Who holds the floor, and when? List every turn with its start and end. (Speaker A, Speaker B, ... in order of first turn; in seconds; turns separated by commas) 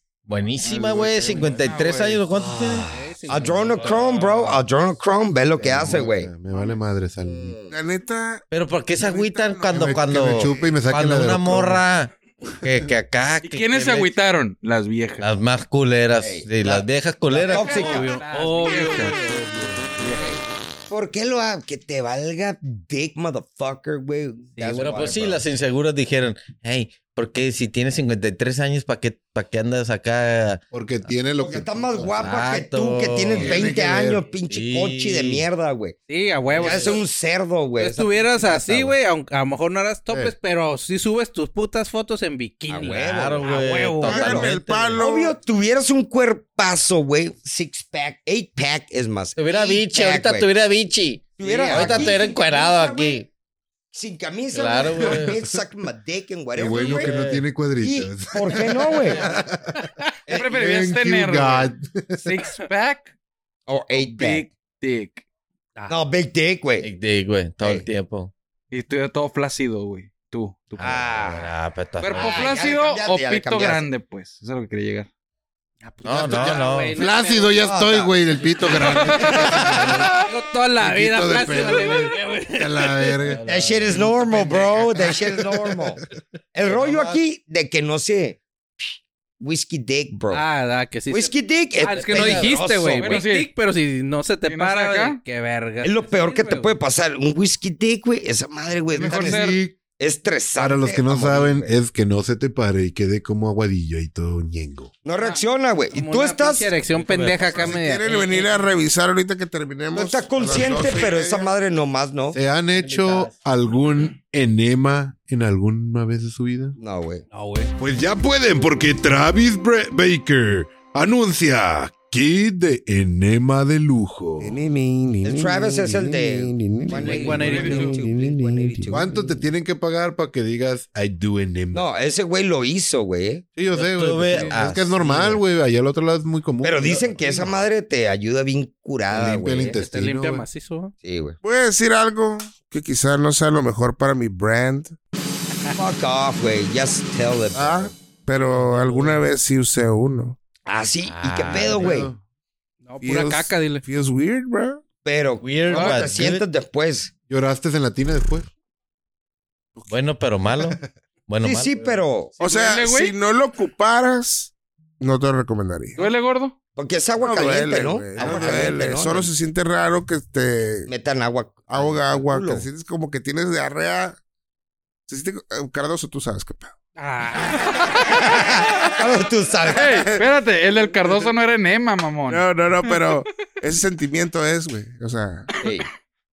Speaker A: 0.3-2.9, Speaker B: 0.6-2.2, Speaker C: 1.3-1.9, Speaker D: 2.3-6.3, Speaker C: 2.8-4.0, Speaker A: 3.4-4.5, Speaker E: 5.6-7.5, Speaker D: 7.2-7.7, Speaker F: 7.7-8.4, Speaker A: 8.5-14.1, Speaker F: 8.9-10.8, Speaker E: 9.7-11.8, Speaker B: 13.4-15.3, Speaker A: 15.2-18.0, Speaker D: 16.2-18.1, Speaker B: 17.5-19.2, Speaker C: 17.5-19.8, Speaker D: 20.0-25.4, Speaker C: 24.6-24.9, Speaker A: 24.6-30.6, Speaker E: 30.7-32.2, Speaker D: 31.4-36.0, Speaker A: 32.1-33.6, Speaker E: 33.3-34.2, Speaker F: 33.4-33.8, Speaker A: 34.5-35.5, Speaker C: 36.1-37.0, Speaker D: 36.6-38.9, Speaker A: 36.6-36.9, Speaker C: 37.8-44.3, Speaker D: 42.7-43.5, Speaker A: 42.9-45.0, Speaker D: 44.0-50.5, Speaker F: 44.0-45.4, Speaker A: 49.4-53.3, Speaker D: 51.4-53.2, Speaker C: 51.7-52.0, Speaker D: 53.9-57.2, Speaker A: 54.5-55.4, Speaker E: 56.5-59.8, Speaker A: 56.7-57.5, Speaker D: 57.8-59.3, Speaker D: 60.3-60.5, Speaker B: 60.3-63.1, Speaker E: 60.4-62.4, Speaker D: 63.7-64.5, Speaker B: 64.0-65.2, Speaker D: 65.9-66.9, Speaker A: 66.8-68.3, Speaker D: 67.6-67.9, Speaker B: 68.7-71.0, Speaker A: 70.8-72.7, Speaker D: 70.8-71.5, Speaker B: 72.0-75.1, Speaker D: 72.1-73.8, Speaker C: 75.8-77.7, Speaker A: 76.0-76.9, Speaker E: 76.9-80.1, Speaker D: 77.6-78.2, Speaker C: 78.6-83.2, Speaker B: 78.8-80.1, Speaker E: 80.8-83.4, Speaker A: 83.2-85.2, Speaker D: 83.5-86.0, Speaker D: 86.5-88.8, Speaker A: 86.6-87.2, Speaker D: 89.4-90.4, Speaker C: 90.3-96.7, Speaker D: 91.1-93.2, Speaker A: 91.9-92.7, Speaker B: 93.0-93.5, Speaker B: 94.5-95.2, Speaker D: 95.8-101.7, Speaker B: 98.9-99.6, Speaker E: 99.0-99.7, Speaker E: 100.6-104.9, Speaker D: 105.0-106.7, Speaker C: 105.9-108.6, Speaker A: 107.0-107.7, Speaker F: 107.5-111.5, Speaker D: 109.9-112.4, Speaker E: 112.3-116.8, Speaker A: 112.9-113.3, Speaker D: 116.8-117.2, Speaker C: 117.3-117.7, Speaker E: 117.8-124.5, Speaker F: 124.4-129.3, Speaker D: 125.2-129.1, Speaker C: 127.0-128.0, Speaker B: 127.3-127.9, Speaker E: 128.9-131.9, Speaker D: 131.7-133.4, Speaker E: 133.6-137.6, Speaker A: 133.7-135.4, Speaker D: 136.6-139.8, Speaker E: 139.1-140.4, Speaker C: 139.7-140.9, Speaker D: 141.0-141.4, Speaker F: 141.4-144.9, Speaker D: 145.7-147.9, Speaker F: 147.5-150.4, Speaker E: 148.6-149.1, Speaker D: 150.7-152.1, Speaker A: 151.0-152.1, Speaker E: 151.5-152.2, Speaker C: 152.8-153.8, Speaker F: 153.0-154.8, Speaker D: 155.0-157.1, Speaker A: 155.4-156.4, Speaker B: 155.7-156.0, Speaker E: 157.3-158.5, Speaker A: 159.9-162.0, Speaker D: 161.4-162.4, Speaker F: 162.4-166.1, Speaker B: 162.4-163.1, Speaker B: 166.0-166.5, Speaker D: 166.8-169.3, Speaker F: 167.2-170.9, Speaker D: 170.9-172.7, Speaker F: 171.7-174.2, Speaker F: 175.1-176.7, Speaker C: 176.9-178.7, Speaker D: 178.3-180.0, Speaker B: 179.7-182.4, Speaker F: 179.8-180.2, Speaker F: 182.3-185.5, Speaker D: 185.6-185.9